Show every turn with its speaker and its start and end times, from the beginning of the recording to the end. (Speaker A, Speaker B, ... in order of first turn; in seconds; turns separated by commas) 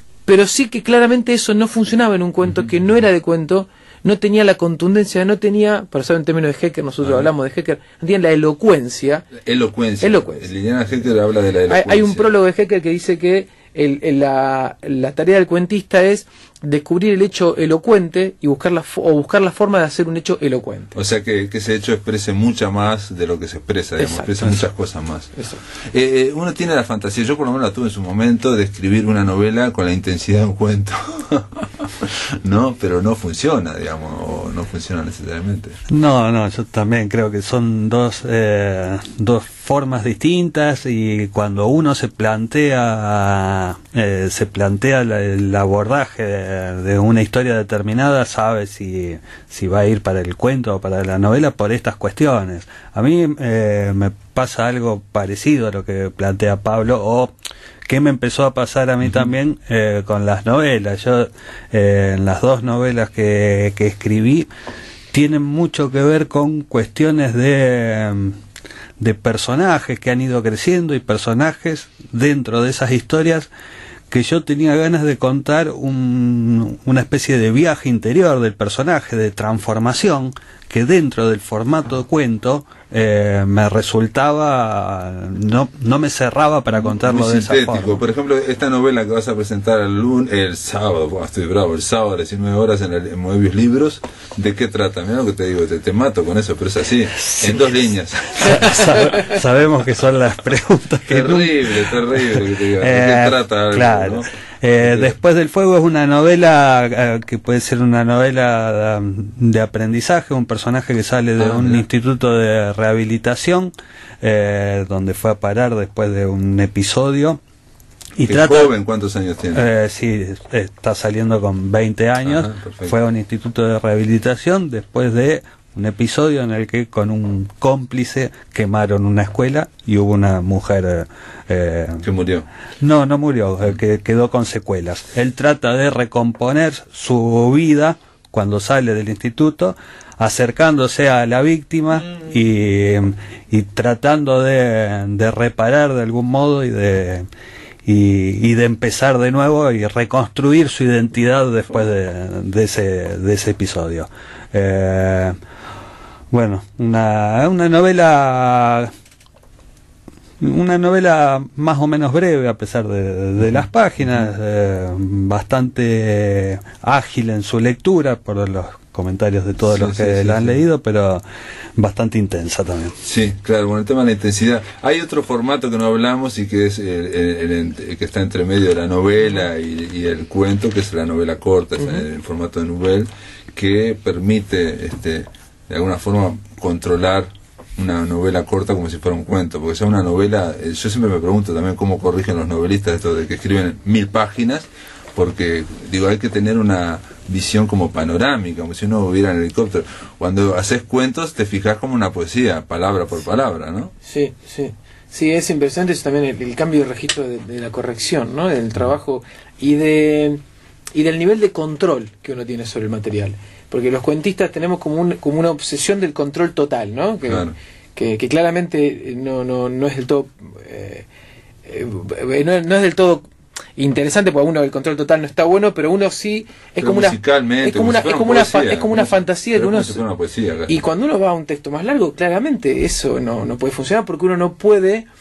Speaker A: 0.2-9.3, Speaker B: 2.5-2.7, Speaker B: 7.0-7.3, Speaker B: 9.4-12.3, Speaker A: 10.0-10.5, Speaker A: 11.7-20.9, Speaker B: 20.9-25.4, Speaker A: 24.0-24.6, Speaker A: 25.3-25.6, Speaker B: 25.9-35.8, Speaker C: 35.9-57.3, Speaker C: 57.9-64.5, Speaker C: 65.1-68.4, Speaker C: 69.0-73.5, Speaker C: 74.1-88.0, Speaker B: 86.8-99.1, Speaker C: 97.2-97.8, Speaker C: 98.3-117.4, Speaker B: 101.1-104.3, Speaker B: 104.8-105.1, Speaker B: 111.4-111.8, Speaker C: 118.2-118.7, Speaker B: 118.2-119.7, Speaker C: 119.5-132.0, Speaker B: 122.2-122.9, Speaker B: 132.0-132.5, Speaker C: 132.8-147.2, Speaker C: 147.8-155.3, Speaker C: 156.3-158.9, Speaker C: 160.4-171.2, Speaker B: 169.6-170.6, Speaker C: 171.8-172.9, Speaker B: 173.0-203.9, Speaker A: 181.8-182.0, Speaker A: 204.0-210.4, Speaker A: 210.9-221.1, Speaker B: 217.2-217.5, Speaker A: 221.7-230.0, Speaker B: 226.8-230.7, Speaker A: 230.7-235.1